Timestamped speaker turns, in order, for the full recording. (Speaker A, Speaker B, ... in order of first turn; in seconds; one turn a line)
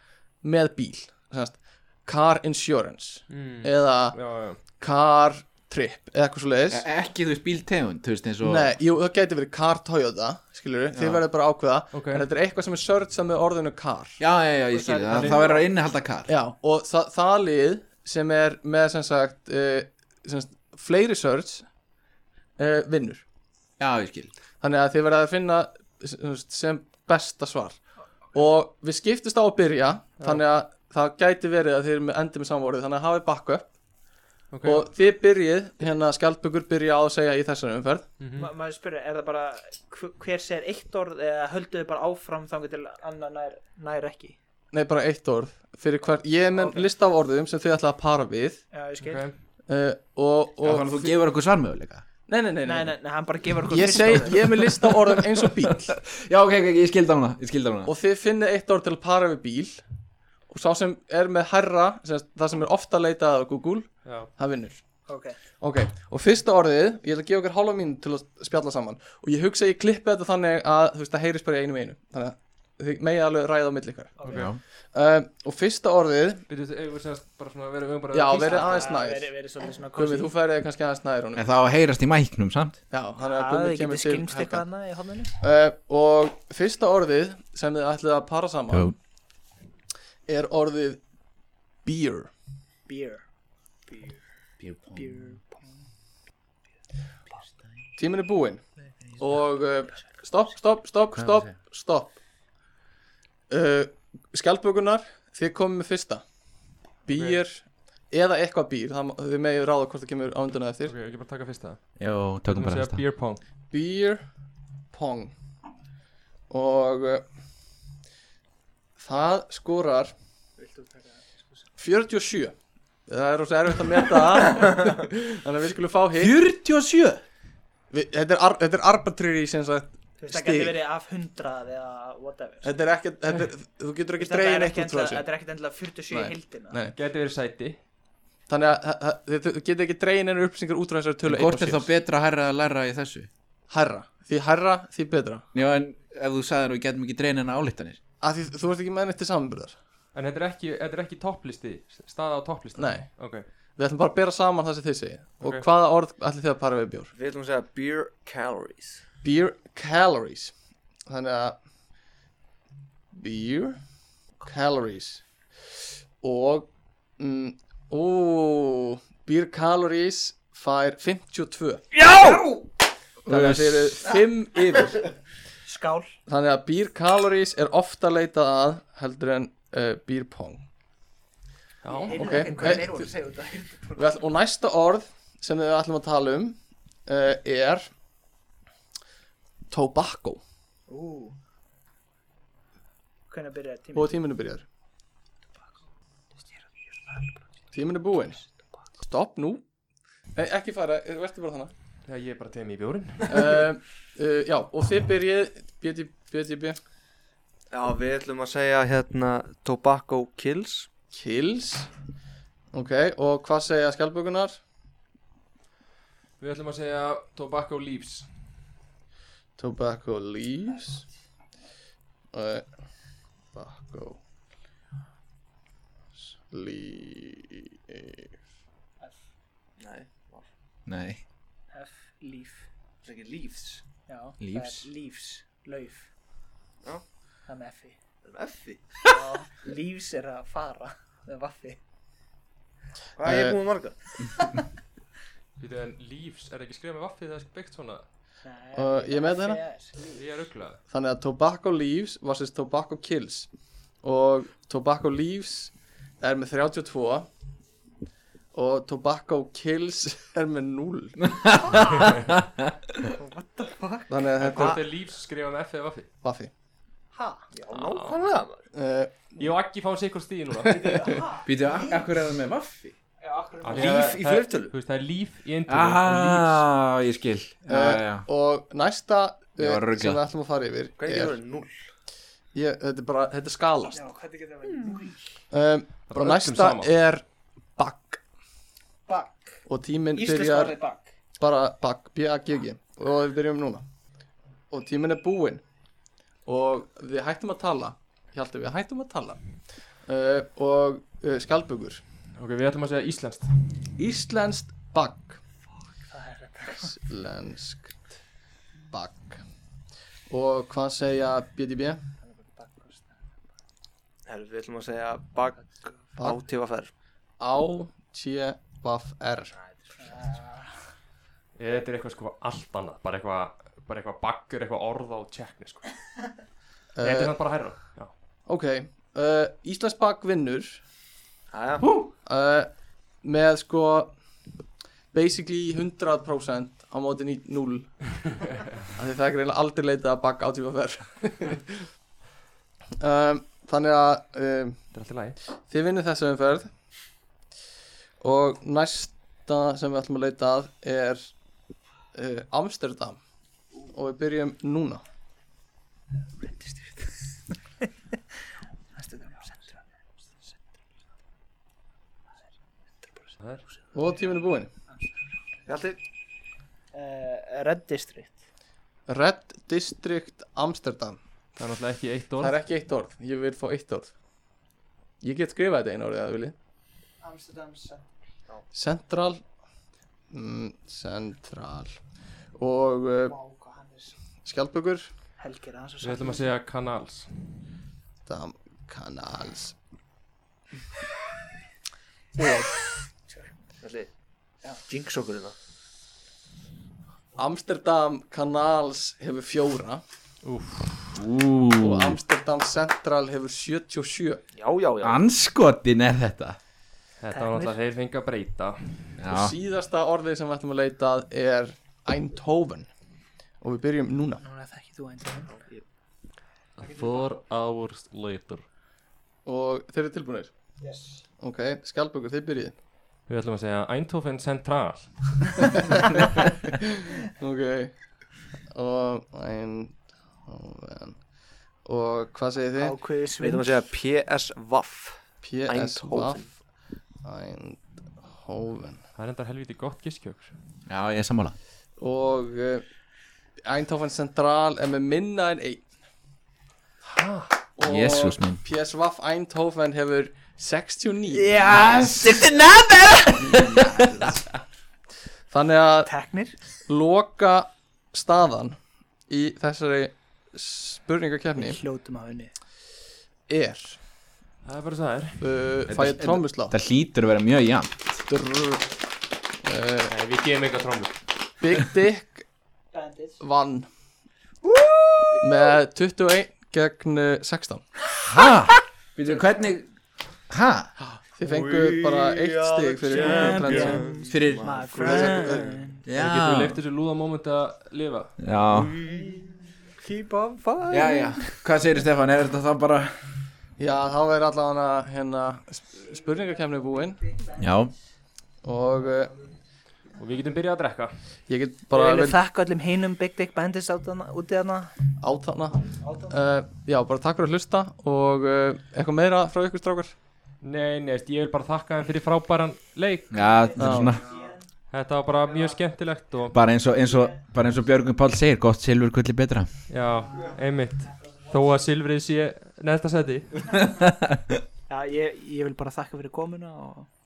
Speaker A: 0.4-4.2
Speaker B: 3.3-4.6
Speaker A: 4.8-6.8
Speaker C: 6.7-8.7
Speaker A: 8.4-14.2
Speaker C: 10.9-11.2
Speaker B: 11.9-12.2
Speaker C: 14.2-16.3
Speaker B: 14.9-15.6
Speaker D: 15.1-15.6
Speaker A: 16.3-21.7
Speaker A: 22.6-23.2
Speaker C: 23.8-24.3
Speaker A: 24.6-27.8
Speaker A: 28.3-33.7
Speaker B: 34.5-34.9
Speaker A: 34.6-38.1
Speaker B: 38.2-38.5
Speaker D: 38.4-44.4
Speaker A: 44.7-48.6
Speaker D: 46.6-46.9
Speaker D: 48.7-49.2
Speaker B: 49.0-49.3
Speaker A: 49.7-51.1
Speaker C: 50.6-52.0
Speaker A: 52.3-52.9
Speaker D: 52.6-54.7
Speaker A: 53.7-56.0
Speaker C: 55.9-57.9
Speaker A: 57.9-59.8
Speaker A: 60.5-64.8
Speaker D: 65.1-65.4
Speaker A: 65.6-74.2
Speaker D: 74.2-74.5
Speaker B: 74.2-74.5
Speaker C: 74.3-74.6
Speaker A: 74.9-76.5
Speaker B: 76.5-78.9
Speaker A: 78.1-79.3
Speaker D: 78.3-80.3
Speaker A: 79.9-81.5
Speaker C: 81.3-82.8
Speaker A: 82.9-84.6
Speaker D: 83.2-85.3
Speaker A: 85.4-88.9
Speaker A: 90.3-91.0
Speaker A: 91.8-92.3
Speaker D: 92.9-93.2
Speaker D: 93.9-94.2
Speaker C: 94.6-95.3
Speaker D: 94.9-95.7
Speaker A: 98.0-98.6
Speaker A: 99.2-102.2
Speaker C: 101.1-101.5
Speaker A: 103.5-106.2
Speaker A: 107.0-110.9
Speaker B: 107.1-107.4
Speaker B: 110.9-111.8
Speaker C: 112.0-113.0
Speaker B: 112.5-113.4
Speaker A: 113.7-114.2
Speaker A: 114.9-115.3
Speaker A: 116.5-117.2
Speaker A: 119.0-120.1
Speaker D: 120.6-121.2
Speaker A: 121.8-122.5
Speaker A: 123.1-126.4
Speaker C: 126.2-127.2
Speaker A: 127.9-130.8
Speaker D: 130.2-132.7
Speaker A: 132.6-135.2
Speaker D: 134.2-136.8
Speaker A: 136.1-136.9
Speaker B: 136.9-137.8
Speaker A: 138.5-141.9
Speaker C: 141.2-143.3
Speaker A: 143.7-145.4
Speaker C: 145.5-148.0
Speaker A: 148.2-149.8
Speaker B: 150.1-153.4
Speaker A: 152.8-153.1
Speaker A: 153.8-157.1
Speaker E: 157.1-159.0
Speaker A: 159.2-160.5
Speaker A: 161.1-161.6
Speaker A: 163.1-163.8
Speaker A: 164.4-165.2
Speaker A: 166.2-171.9
Speaker D: 172.1-172.7
Speaker C: 173.2-174.0
Speaker A: 173.2-175.1
Speaker D: 175.6-176.1
Speaker A: 176.3-180.6
Speaker B: 181.8-182.8
Speaker D: 181.9-184.1
Speaker A: 182.1-183.1
Speaker A: 183.9-187.9
Speaker A: 189.7-190.4
Speaker D: 190.9-191.3
Speaker D: 193.3-194.1
Speaker A: 193.9-194.6
Speaker D: 196.5-197.4
Speaker A: 197.7-198.4
Speaker A: 199.0-199.6
Speaker A: 200.3-201.7
Speaker B: 202.1-203.7
Speaker A: 203.3-206.8
Speaker E: 207.7-210.9
Speaker A: 211.1-211.9
Speaker A: 212.7-214.6
Speaker B: 216.4-218.3
Speaker A: 219.6-221.0
Speaker A: 222.3-222.7
Speaker A: 223.5-224.2
Speaker A: 226.3-228.2
Speaker E: 229.8-230.5
Speaker C: 230.8-231.2
Speaker D: 231.7-232.7
Speaker E: 233.0-233.8
Speaker D: 234.1-236.1
Speaker C: 234.4-234.9
Speaker D: 237.5-238.0
Speaker E: 238.2-239.0
Speaker D: 239.0-241.8
Speaker E: 243.2-244.0
Speaker A: 243.2-243.6
Speaker B: 245.6-248.0
Speaker D: 248.4-250.2
Speaker A: 248.7-249.6
Speaker B: 250.2-250.8
Speaker A: 250.9-253.5
Speaker A: 254.0-257.3
Speaker A: 258.5-261.4
Speaker C: 261.2-262.7
Speaker D: 261.7-262.1
Speaker D: 263.1-264.1
Speaker A: 264.1-264.8
Speaker B: 264.4-266.1
Speaker E: 264.4-264.8
Speaker A: 266.2-266.5
Speaker D: 267.1-267.4
Speaker E: 267.5-268.6
Speaker B: 267.7-268.2
Speaker A: 268.7-269.1
Speaker B: 269.4-271.0
Speaker A: 270.6-271.1
Speaker D: 270.7-272.1
Speaker C: 271.4-272.9
Speaker D: 273.2-274.2
Speaker B: 273.6-276.6
Speaker E: 273.7-274.7
Speaker C: 275.7-278.2
Speaker A: 277.7-281.4
Speaker C: 279.6-280.2
Speaker E: 281.0-281.8
Speaker A: 282.5-284.1
Speaker D: 283.9-285.2
Speaker A: 285.5-288.2
Speaker B: 286.1-286.9
Speaker D: 289.1-289.6
Speaker A: 289.6-290.8
Speaker D: 290.1-291.1
Speaker A: 291.4-293.8
Speaker A: 294.7-295.6
Speaker A: 296.4-299.4
Speaker A: 300.1-302.0
Speaker B: 302.4-303.5
Speaker A: 304.0-305.4
Speaker D: 306.1-306.9
Speaker A: 306.8-308.0
Speaker A: 308.9-309.4
Speaker A: 310.3-312.0
Speaker D: 312.2-313.1
Speaker E: 314.2-316.9
Speaker A: 317.4-319.5
Speaker D: 320.0-320.7
Speaker B: 321.6-325.9
Speaker A: 326.9-327.3
Speaker B: 327.0-328.1
Speaker A: 328.5-330.8
Speaker E: 331.5-331.8
Speaker A: 332.2-332.7
Speaker A: 333.2-334.1
Speaker A: 335.1-338.1
Speaker A: 338.9-341.9
Speaker A: 343.0-344.8
Speaker B: 344.9-345.4
Speaker A: 345.7-346.7
Speaker A: 348.2-351.3
Speaker A: 352.1-353.2
Speaker A: 353.9-355.0
Speaker D: 356.4-357.2
Speaker D: 358.9-359.8
Speaker A: 363.9-364.7
Speaker E: 365.6-366.0
Speaker D: 366.9-368.4
Speaker A: 369.1-371.2
Speaker B: 371.6-372.6
Speaker A: 372.4-374.1
Speaker A: 375.2-376.5
Speaker D: 377.2-378.0
Speaker A: 378.7-379.4
Speaker A: 380.3-382.0
Speaker A: 382.6-383.4
Speaker D: 383.3-384.1
Speaker A: 384.4-385.1
Speaker D: 385.4-386.5
Speaker B: 386.0-387.3
Speaker A: 388.2-389.8
Speaker A: 392.4-392.7
Speaker E: 393.8-394.1
Speaker E: 394.7-395.5
Speaker A: 397.4-400.0
Speaker B: 400.4-401.2
Speaker C: 401.1-402.2
Speaker A: 401.8-404.4
Speaker E: 404.6-405.2
Speaker C: 405.0-406.6
Speaker B: 407.2-409.0
Speaker D: 407.3-407.8
Speaker C: 409.2-409.5
Speaker A: 409.3-412.9
Speaker A: 413.6-414.4
Speaker D: 414.4-415.5
Speaker E: 415.5-415.8
Speaker B: 416.8-418.6
Speaker A: 419.4-420.5
Speaker D: 420.8-421.2
Speaker A: 421.4-422.7
Speaker B: 423.3-426.3
Speaker A: 426.7-427.9
Speaker A: 428.7-431.2
Speaker A: 431.8-432.9
Speaker D: 432.8-433.9
Speaker E: 433.4-436.5
Speaker A: 435.4-436.4
Speaker A: 437.2-439.0
Speaker B: 439.2-440.5
Speaker C: 440.9-441.6
Speaker A: 442.0-442.8
Speaker A: 443.6-445.8
Speaker B: 447.0-447.5
Speaker A: 447.8-451.5
Speaker C: 447.8-448.6
Speaker D: 451.3-452.6
Speaker C: 451.6-454.3
Speaker A: 455.5-456.1
Speaker D: 456.1-456.5
Speaker A: 456.9-458.8
Speaker A: 459.3-461.8
Speaker D: 461.6-462.5
Speaker A: 463.5-464.0
Speaker B: 464.6-465.4
Speaker A: 465.4-466.7
Speaker C: 465.9-468.0
Speaker A: 468.3-469.0
Speaker A: 469.6-470.1
Speaker B: 470.1-471.1
Speaker A: 471.6-472.4
Speaker D: 472.9-473.4
Speaker A: 473.4-473.9
Speaker E: 474.6-475.7
Speaker A: 475.4-477.8
Speaker C: 478.2-479.9
Speaker C: 480.5-480.9
Speaker A: 481.1-484.0
Speaker E: 481.4-485.8
Speaker D: 483.1-486.0
Speaker C: 484.3-484.9
Speaker A: 484.9-485.8
Speaker C: 486.0-486.8
Speaker B: 486.1-488.4
Speaker C: 488.4-488.9
Speaker E: 488.7-489.5
Speaker D: 490.0-491.6
Speaker C: 490.9-493.1
Speaker A: 493.8-497.2
Speaker C: 497.6-497.9
Speaker A: 498.6-499.4
Speaker B: 500.2-501.1
Speaker A: 501.5-502.4
Speaker D: 501.9-504.9
Speaker A: 505.2-510.1
Speaker D: 506.0-506.4
Speaker B: 510.6-513.4
Speaker C: 513.3-514.2
Speaker A: 513.8-514.1
Speaker D: 513.8-514.6
Speaker E: 514.2-514.5
Speaker B: 514.9-516.5
Speaker C: 516.5-519.7
Speaker B: 519.9-523.6
Speaker C: 523.7-524.6
Speaker D: 524.9-527.1